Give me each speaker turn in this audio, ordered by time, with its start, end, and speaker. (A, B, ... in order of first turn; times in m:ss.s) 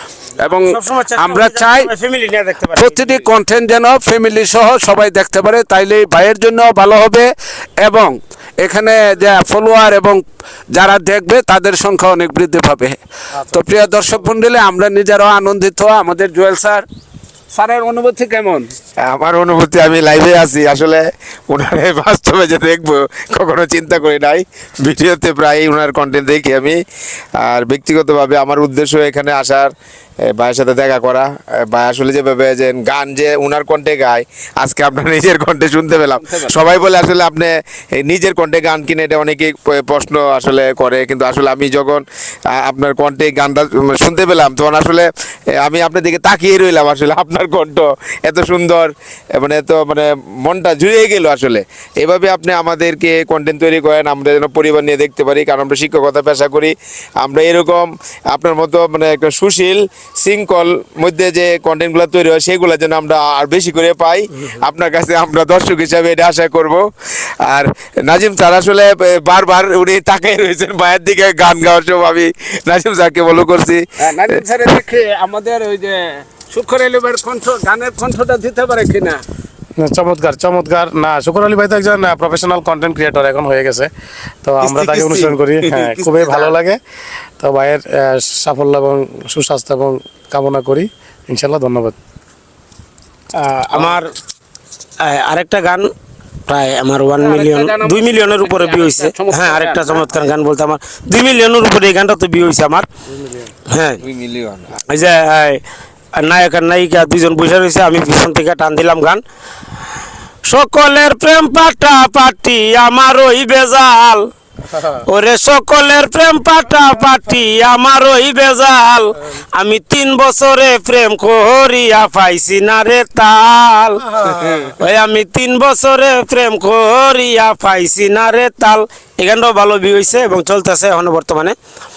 0:00.4-0:01.9 A
0:00.5-0:03.3 B
0:02.8-0:07.3 A
0:07.8-0:16.8 A
0:17.5-0:18.7 A
0:19.1-0:26.8 C
0:27.4-0:29.7 C
0:30.2-1:14.4 C
0:36.2-0:36.6 A
1:14.0-1:19.2 A
1:19.8-1:23.9 D
1:24.4-1:26.8 D
1:24.6-1:26.5 C
1:27.4-1:32.0 D
1:33.3-1:34.1 B
1:35.0-1:35.9 B
1:36.5-1:42.9 B
1:37.2-1:40.1 A
1:43.6-1:44.0 B
1:44.0-1:44.7 C
1:44.7-1:45.6 B
1:46.1-1:49.2 B
1:50.4-2:11.6 B